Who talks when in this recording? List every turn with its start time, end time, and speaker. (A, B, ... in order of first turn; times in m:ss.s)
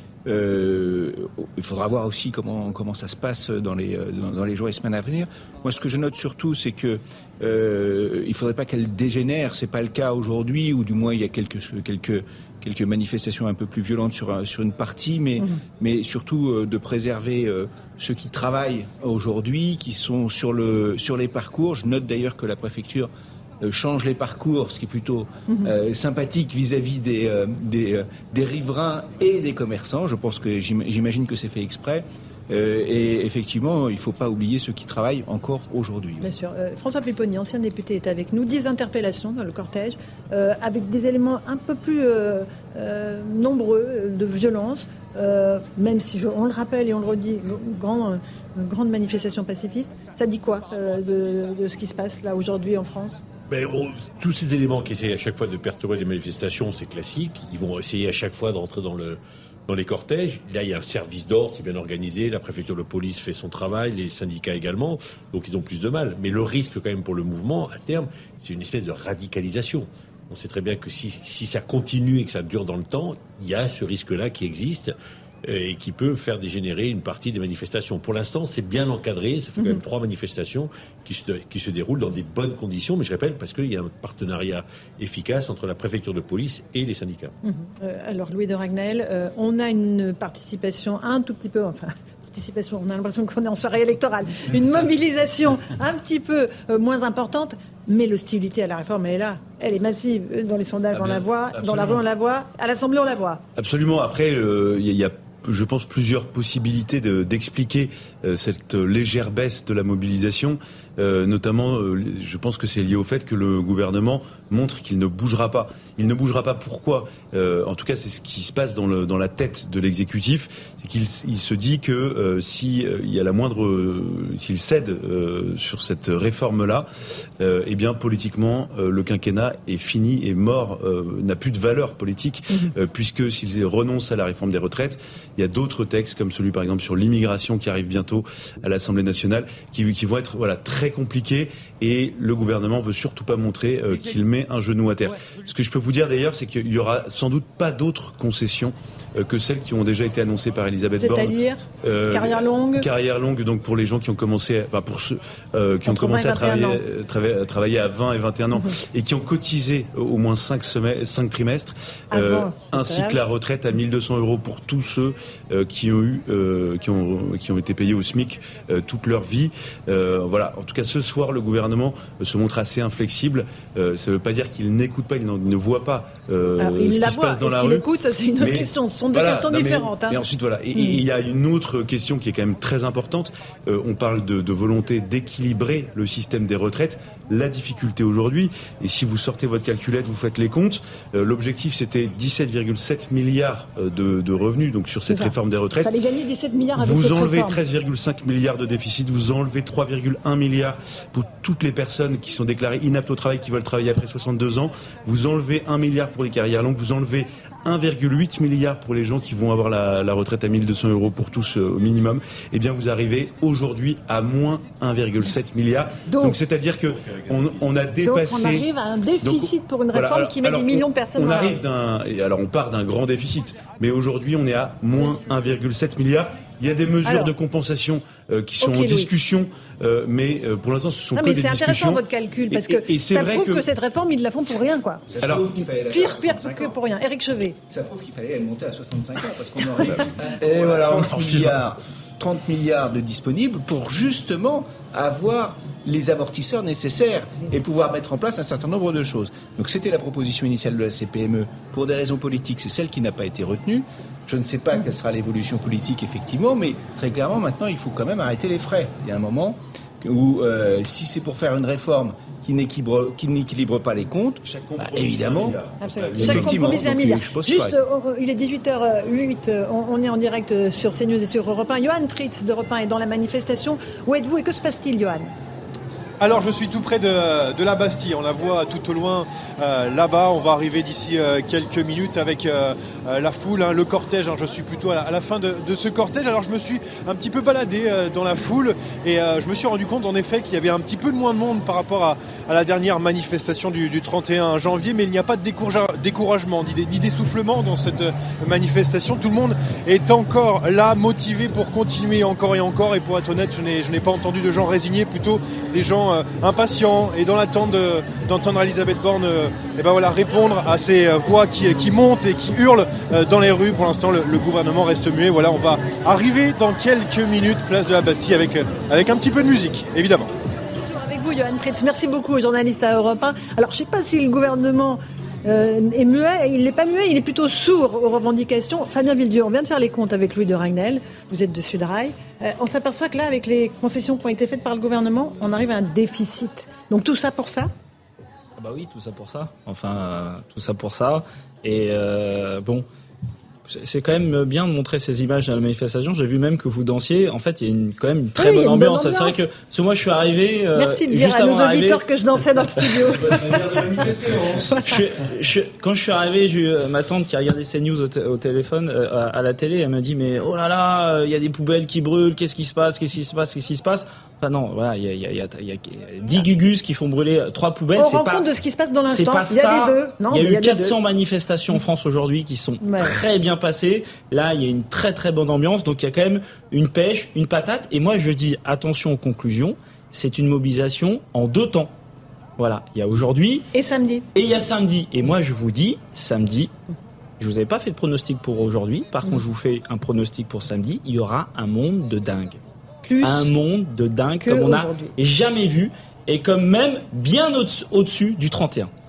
0:00.3-0:36.3 A
0:36.2-0:53.2 B
0:53.5-1:27.3 C
1:19.6-1:19.8 B
1:27.4-1:43.4 B
1:41.0-1:42.0 A
1:43.6-2:06.9 D
2:07.4-2:57.9 D
2:31.0-2:32.9 B
2:35.9-2:36.8 B
2:42.1-2:43.2 B
2:56.6-3:00.2 B
2:58.4-3:15.9 D
3:15.1-3:17.6 B
3:16.8-3:38.7 D
3:36.1-3:36.4 B
3:38.0-3:41.6 B
3:39.2-3:53.6 D
3:47.1-3:47.3 B
3:48.6-3:49.1 B
3:51.2-3:55.0 B
3:55.1-3:56.8 A
3:55.2-3:55.5 D
3:55.9-3:57.6 B
3:57.7-4:25.6 A
3:59.9-4:01.6 D
4:24.4-4:26.8 D
4:25.8-4:35.3 B
4:26.2-4:27.8 A
4:36.2-5:20.3 E
5:20.8-5:37.7 B
5:38.6-5:42.9 F
5:43.7-5:52.0 F
5:48.4-5:49.5 B
5:50.8-5:53.6 B
5:53.2-5:54.8 D
5:54.2-5:54.6 A
5:54.8-6:08.5 F
6:08.0-6:11.0 B
6:09.1-6:21.9 F
6:12.8-6:13.2 B
6:22.6-6:23.7 F
6:23.7-6:24.3 B
6:24.4-6:26.7 F
6:27.4-6:32.6 F
6:33.0-6:33.5 B
6:33.2-6:38.9 F
6:34.4-6:35.1 B